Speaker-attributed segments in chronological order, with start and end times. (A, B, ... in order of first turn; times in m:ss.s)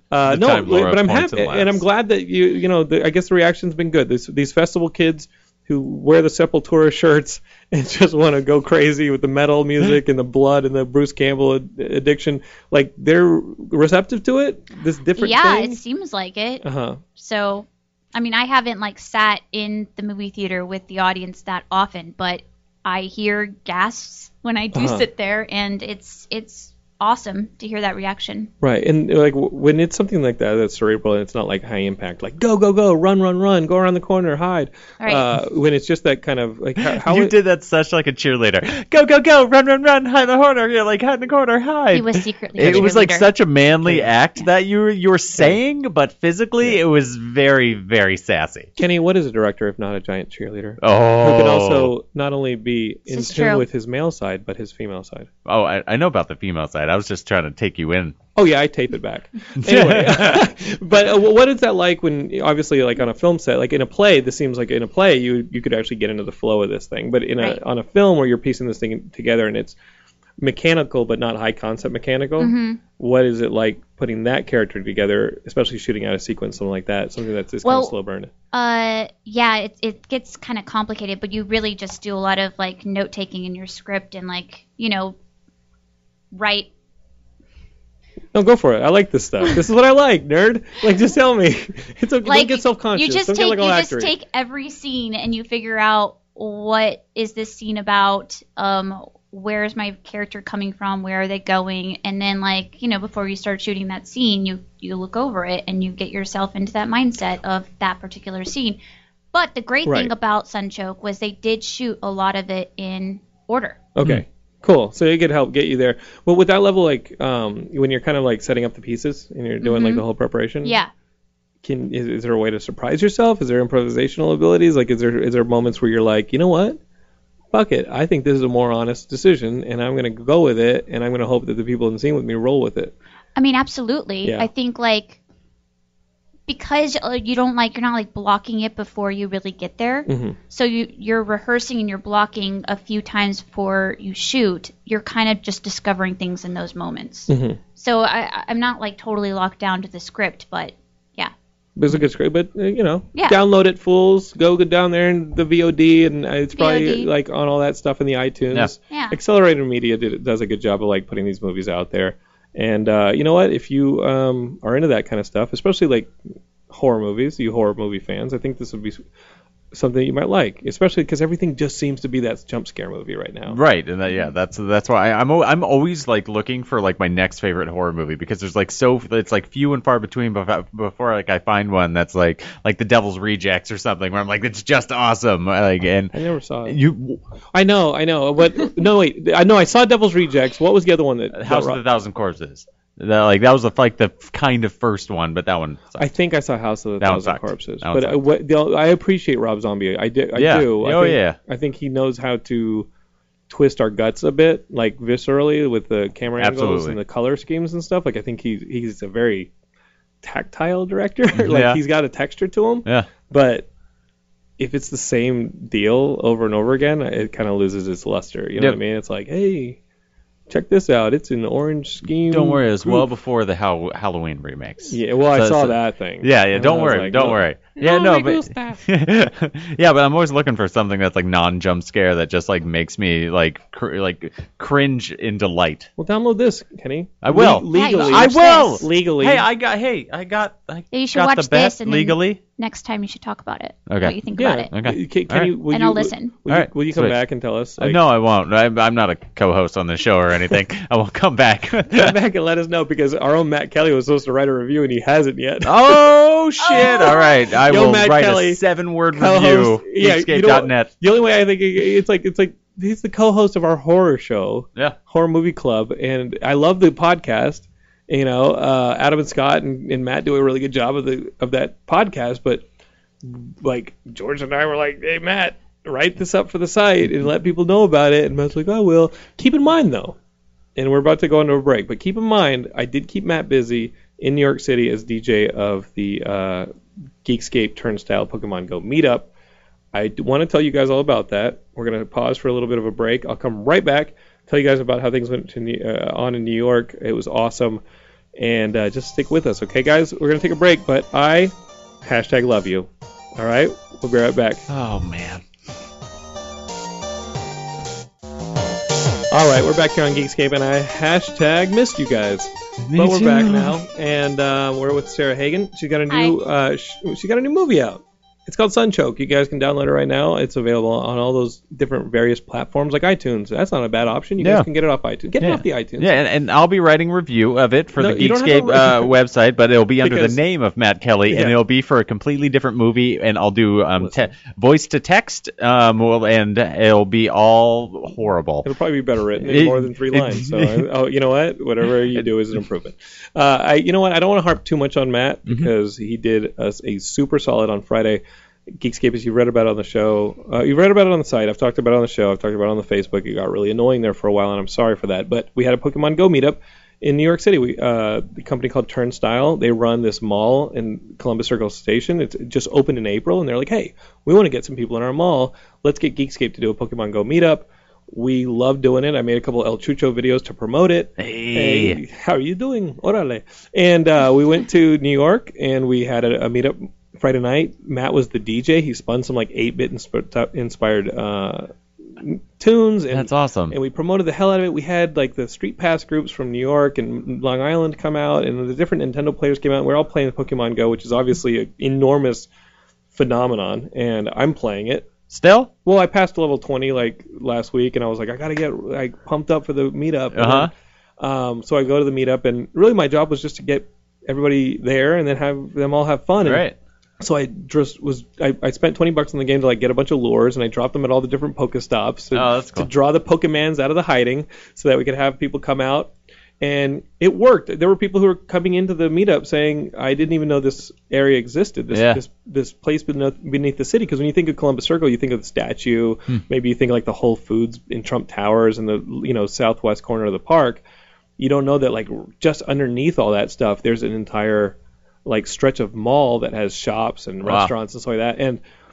0:00.1-0:15.8 A
0:00.3-0:01.8 B
0:15.2-0:16.6 C
0:16.6-0:17.0 A
0:17.2-0:28.5 C
0:24.7-0:25.1 A
0:28.6-0:37.3 A
0:35.0-0:35.2 C
0:36.8-0:48.7 B
0:41.9-0:43.3 C
0:42.6-0:42.9 A
0:48.8-0:55.3 A
0:50.8-0:51.9 B
0:53.1-0:53.7 C
0:55.5-0:58.2 B
0:58.4-1:09.8 A
0:59.6-1:00.5 B
1:10.4-1:18.3 A
1:12.4-1:12.8 C
1:17.6-1:18.0 C
1:18.5-1:25.2 C
1:26.3-1:26.7 C
1:28.3-1:34.1 A
1:32.2-1:48.8 C
1:49.3-1:53.8 C
1:49.9-1:50.1 A
1:54.0-2:00.8 A
1:59.6-2:00.0 C
2:00.6-2:00.9 C
2:01.6-2:06.8 A
2:07.5-2:12.9 A
2:13.4-2:15.2 C
2:14.2-2:14.5 A
2:16.5-2:31.3 C
2:20.1-2:20.4 A
2:27.3-2:27.6 A
2:31.8-2:46.1 A
2:33.1-2:33.4 C
2:36.5-2:37.1 C
2:38.9-2:39.2 C
2:46.7-2:49.0 A
2:49.7-2:53.6 A
2:53.5-3:06.1 B
3:06.1-3:06.8 A
3:06.7-3:07.2 B
3:07.5-3:11.8 A
3:11.3-3:16.1 B
3:16.0-3:22.9 A
3:17.0-3:18.2 B
3:20.4-3:21.4 B
3:23.5-3:29.5 A
3:26.4-3:27.0 B
3:30.2-3:33.7 A
3:31.4-3:31.8 B
3:34.6-3:39.8 A
3:40.5-3:43.1 A
3:42.3-3:55.9 B
3:44.9-3:48.7 A
3:56.0-3:59.4 A
3:57.2-4:02.4 B
3:57.7-3:58.8 C
4:00.9-4:04.7 C
4:03.9-4:04.2 B
4:04.3-4:08.0 A
4:04.7-4:05.5 B
4:05.7-4:06.3 C
4:06.5-4:07.2 B
4:07.8-4:12.1 B
4:11.9-4:16.0 A
4:15.6-4:20.9 B
4:16.6-4:17.4 C
4:16.7-4:18.6 A
4:19.1-4:32.6 A
4:33.2-4:40.2 A
4:40.8-4:46.7 A
4:47.2-4:49.3 A
4:49.9-4:57.8 A
4:58.4-5:04.6 A
5:04.7-5:05.4 B
5:09.3-5:26.2 A
5:12.9-5:13.8 B
5:16.1-5:16.4 C
5:24.4-5:24.7 B
5:25.4-5:38.7 B
5:28.0-5:29.1 A
5:30.0-5:30.4 A
5:31.3-5:31.6 A
5:34.0-5:34.3 A
5:38.6-5:48.2 A
5:39.4-5:40.9 B
5:48.8-6:32.5 A
6:11.2-6:12.0 B
6:23.1-6:23.8 B
6:33.1-6:35.1 A
6:35.3-6:35.7 B
6:35.8-6:46.6 A
6:40.3-6:40.7 B
6:46.4-6:46.8 B
6:47.2-7:10.8 A
6:52.3-6:52.9 B
7:01.9-7:02.2 B
7:11.4-7:18.6 A
7:17.4-7:17.7 B